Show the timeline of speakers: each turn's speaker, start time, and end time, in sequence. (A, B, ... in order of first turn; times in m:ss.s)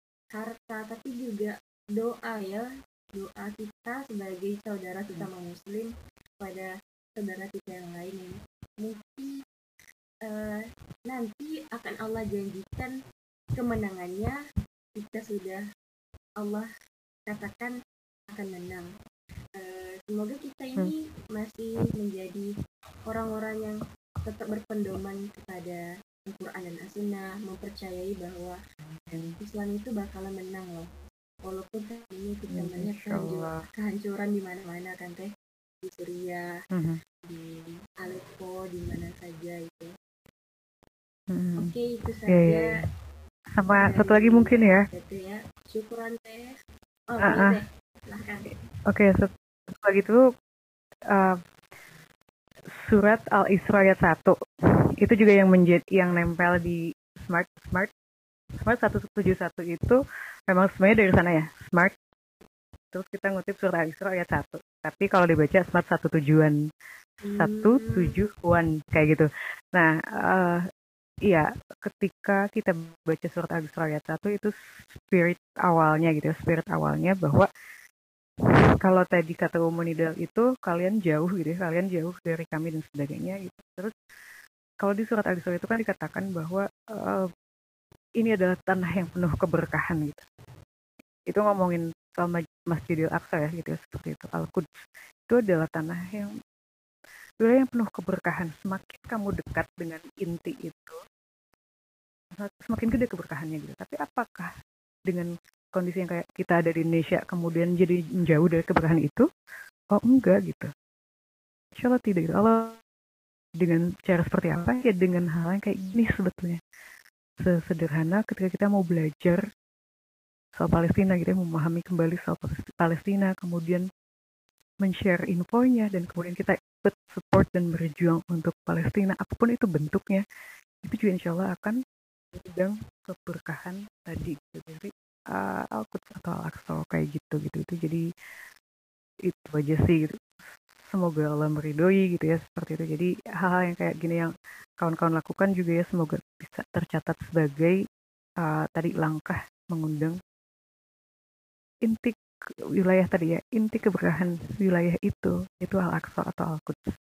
0:00.3-0:02.6 A
0:03.2-0:05.9 A
0:06.4-0:09.3 A
0:10.2-0:12.9 A
0:13.6-0:14.3 A
0:15.0-0:15.6 A
0:16.4-0:16.7 A
0:17.3-0:17.7 A
0:18.3-0:18.9 A
0:19.6-0:22.5 A
0:23.1-0:28.6 A
0:28.8-0:29.4 B
0:29.4-0:30.9 A
0:31.4-0:35.3 A
0:32.5-0:33.6 B
0:35.8-0:36.4 A
0:36.7-0:37.0 B
0:37.2-0:39.9 A
0:41.3-0:41.7 B
0:41.6-0:42.7 A
0:42.3-0:42.6 B
0:43.5-0:44.8 B
0:43.7-0:46.4 A
0:47.1-0:48.5 A
0:47.2-0:47.5 B
0:48.9-0:50.2 B
0:51.1-0:51.4 B
0:52.8-0:54.4 B
0:55.0-0:57.9 B
0:58.6-1:00.0 B
1:00.5-1:01.9 B
1:02.9-1:06.6 B
1:07.2-1:08.1 A
1:07.3-1:10.6 B
1:11.3-1:17.5 B
1:18.8-1:23.9 B
1:24.8-1:27.3 B
1:28.2-1:30.2 B
1:31.3-1:34.7 B
1:35.3-1:36.3 B
1:37.4-1:41.0 B
1:42.4-1:44.5 B
1:45.1-1:49.2 B
1:49.9-1:50.7 B
1:51.8-1:52.8 B
1:53.6-1:56.6 B
1:57.4-1:59.4 B
2:00.5-2:03.8 B
2:04.8-2:10.2 B
2:10.8-2:11.8 B
2:12.3-2:18.0 B
2:19.3-2:24.3 B
2:24.8-2:27.8 B
2:28.4-2:30.2 B
2:31.8-2:32.2 B
2:32.8-2:37.0 B